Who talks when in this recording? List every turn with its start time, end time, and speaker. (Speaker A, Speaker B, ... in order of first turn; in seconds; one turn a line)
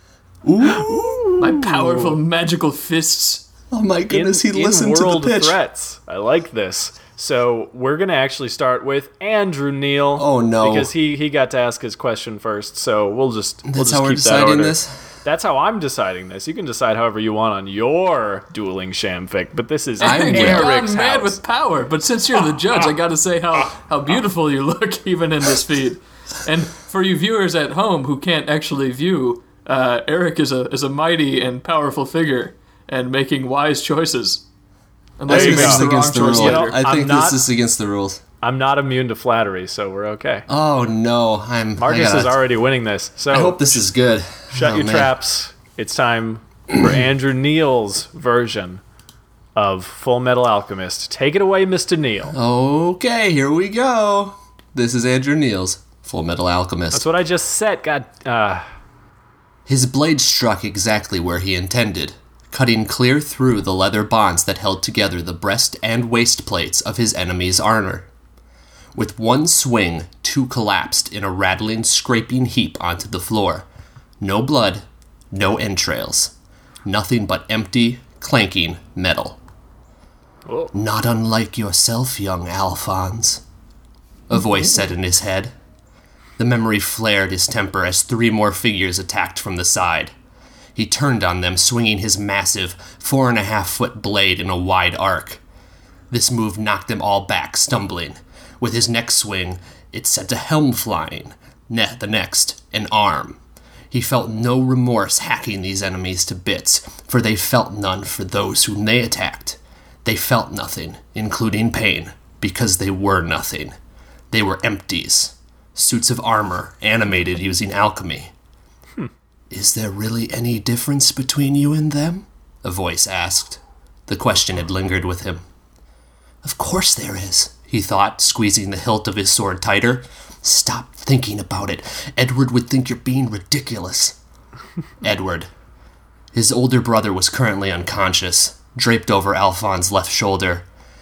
Speaker A: 0.4-1.5
Speaker B: 0.8-1.6
Speaker C: 1.4-3.5
Speaker A: 3.7-5.6
Speaker B: 4.1-21.4
Speaker A: 10.2-10.9
Speaker A: 13.6-14.9
Speaker C: 20.0-34.4
Speaker A: 20.0-20.7
Speaker C: 35.2-36.8
Speaker A: 35.3-38.2
Speaker B: 35.3-37.4
Speaker B: 38.4-40.5
Speaker A: 40.5-42.4
Speaker B: 41.8-43.8
Speaker A: 43.3-45.1
Speaker B: 44.5-48.8
Speaker A: 46.7-47.0
Speaker B: 49.5-52.4
Speaker A: 52.3-57.0
Speaker B: 56.9-58.6
Speaker A: 59.7-68.1
Speaker A: 69.0-73.7
Speaker A: 74.2-76.3
Speaker A: 76.8-79.4
Speaker B: 80.5-80.7
Speaker A: 80.7-83.4
Speaker A: 84.3-85.5
Speaker A: 86.4-90.2
Speaker A: 90.8-95.4
Speaker A: 96.1-103.4
Speaker A: 103.9-113.8
Speaker A: 114.3-118.3
Speaker A: 119.5-125.4
Speaker A: 126.4-134.2
Speaker A: 135.0-135.5
Speaker A: 136.3-140.7